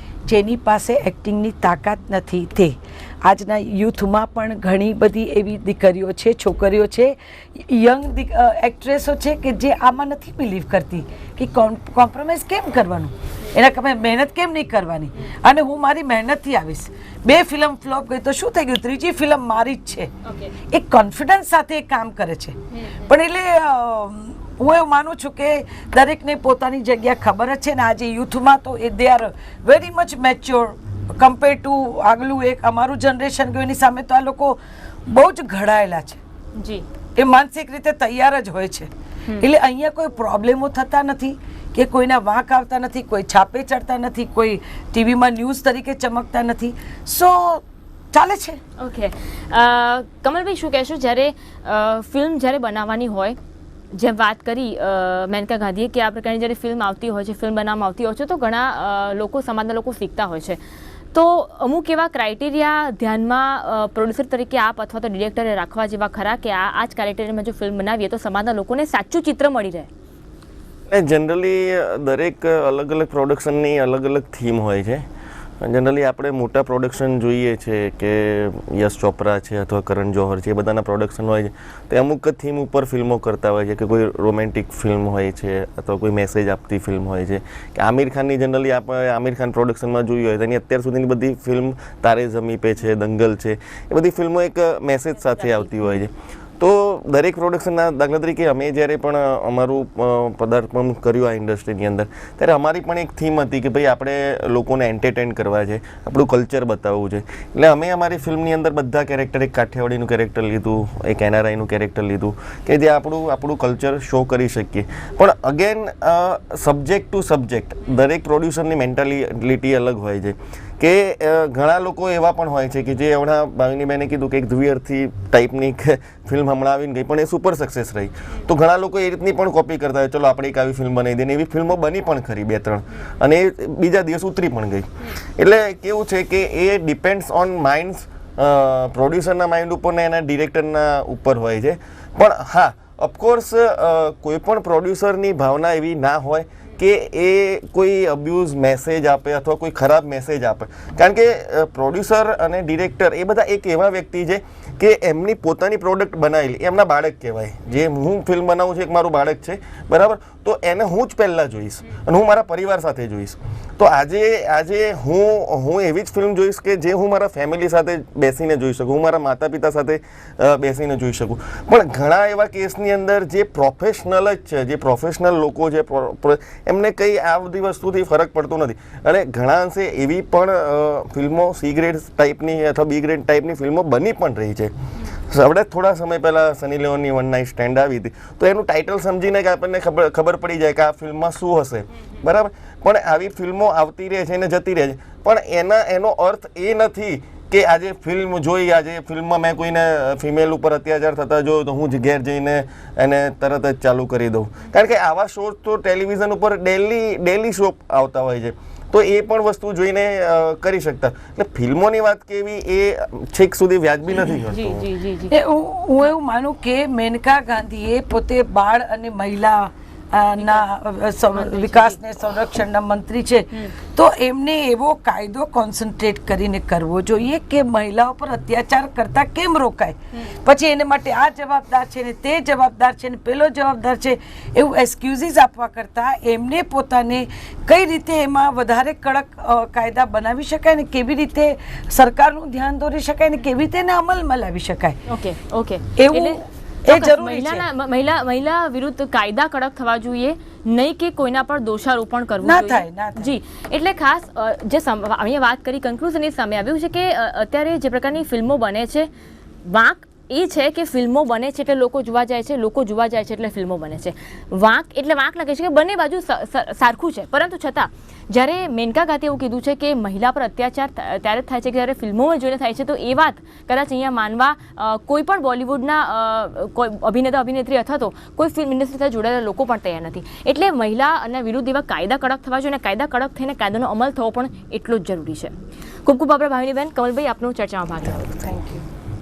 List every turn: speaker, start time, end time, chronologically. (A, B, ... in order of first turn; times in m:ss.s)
0:00.3-0:36.2 A
0:20.2-0:20.5 B
0:22.7-0:23.1 B
0:36.6-0:36.8 B
0:37.2-0:48.6 A
0:48.8-0:53.4 B
0:53.9-1:00.6 B
1:01.1-1:09.9 B
1:10.9-1:15.0 C
1:15.6-3:04.7 C
1:35.4-1:36.0 B
3:05.3-3:34.9 C
3:34.4-3:35.3 B
3:35.3-4:05.0 A
3:40.4-3:40.7 B
3:41.3-3:42.0 B
4:05.1-4:19.1 B
4:06.0-4:07.7 A
4:12.4-4:13.3 A
4:19.6-4:45.5 B
4:46.1-4:48.6 B